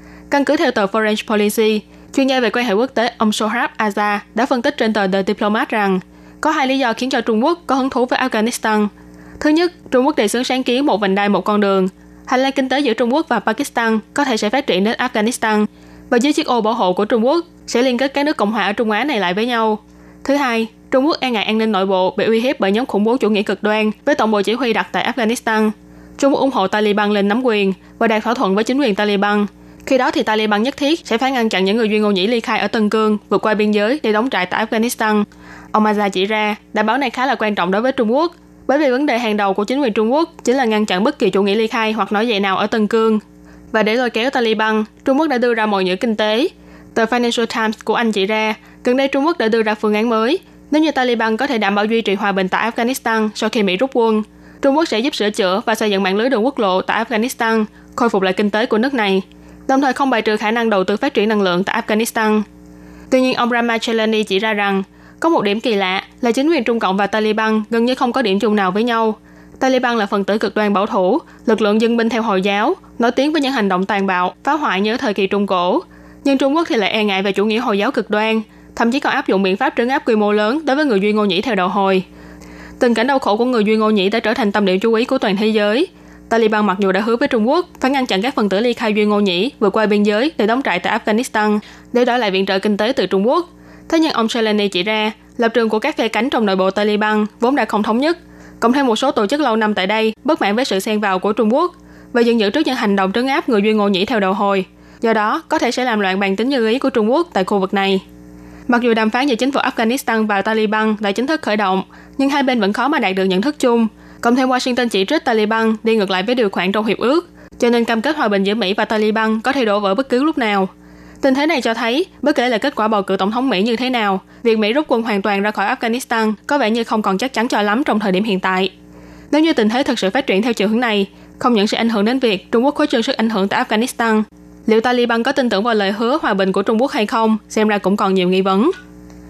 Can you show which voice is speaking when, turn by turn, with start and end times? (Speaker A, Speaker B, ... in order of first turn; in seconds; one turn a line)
Speaker A: 0.3-43.2
Speaker A: 43.7-62.4
Speaker A: 63.1-82.0
Speaker A: 82.8-108.0
Speaker A: 108.7-120.7
Speaker A: 121.2-128.7
Speaker A: 129.3-138.7